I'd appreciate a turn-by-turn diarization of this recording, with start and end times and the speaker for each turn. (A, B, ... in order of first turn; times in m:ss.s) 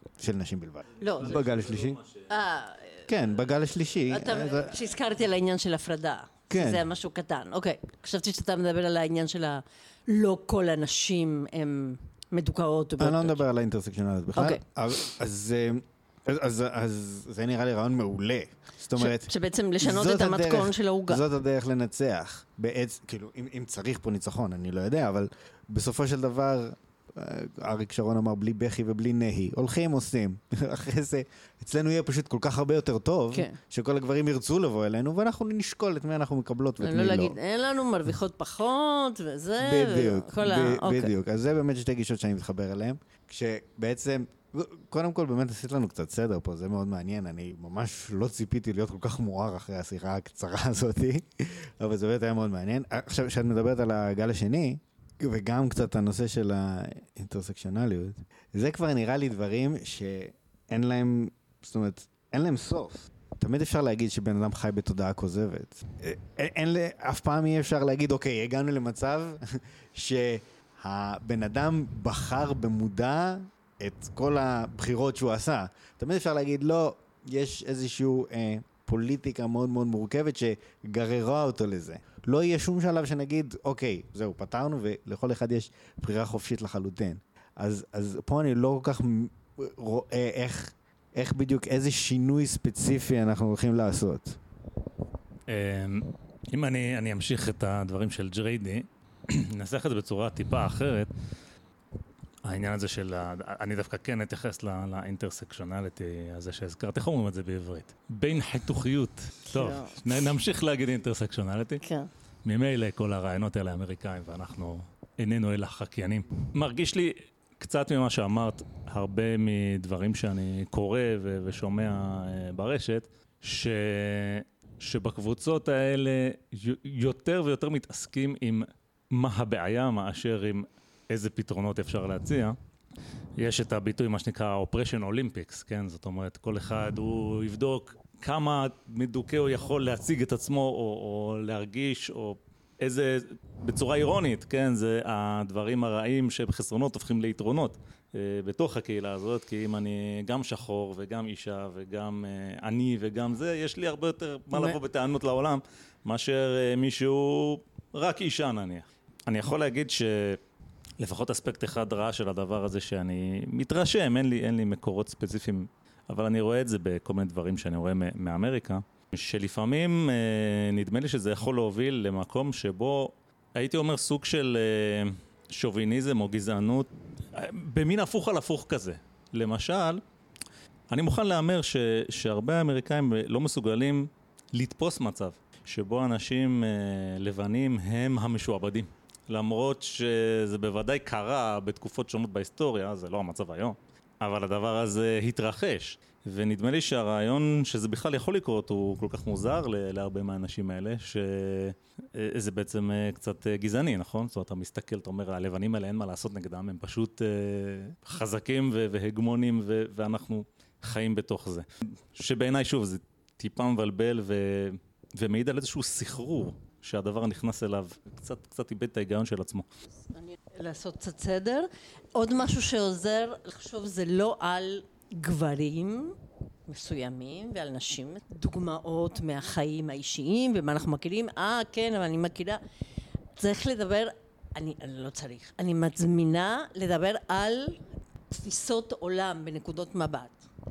0:00.2-0:02.0 A
0:01.0-0:01.4 B
0:01.2-0:02.3 C
0:02.3-0:03.1 B
0:03.1-0:04.9 A
0:04.1-0:13.4 B
0:06.5-0:06.9 A
0:13.0-0:37.4 A
0:14.4-0:14.6 B
0:19.0-0:21.2 B
0:36.8-0:41.1 B
0:39.6-1:34.4 A
1:35.5-1:41.1 C
1:42.4-1:51.8 C
1:49.5-1:50.0 B
1:51.8-1:52.1 B
1:52.4-2:12.6 C
2:13.4-2:40.4 C
2:41.0-3:00.0 C
3:00.9-3:39.7 C
3:40.2-3:52.6 B
3:53.4-3:57.8 B
3:58.3-4:00.4 B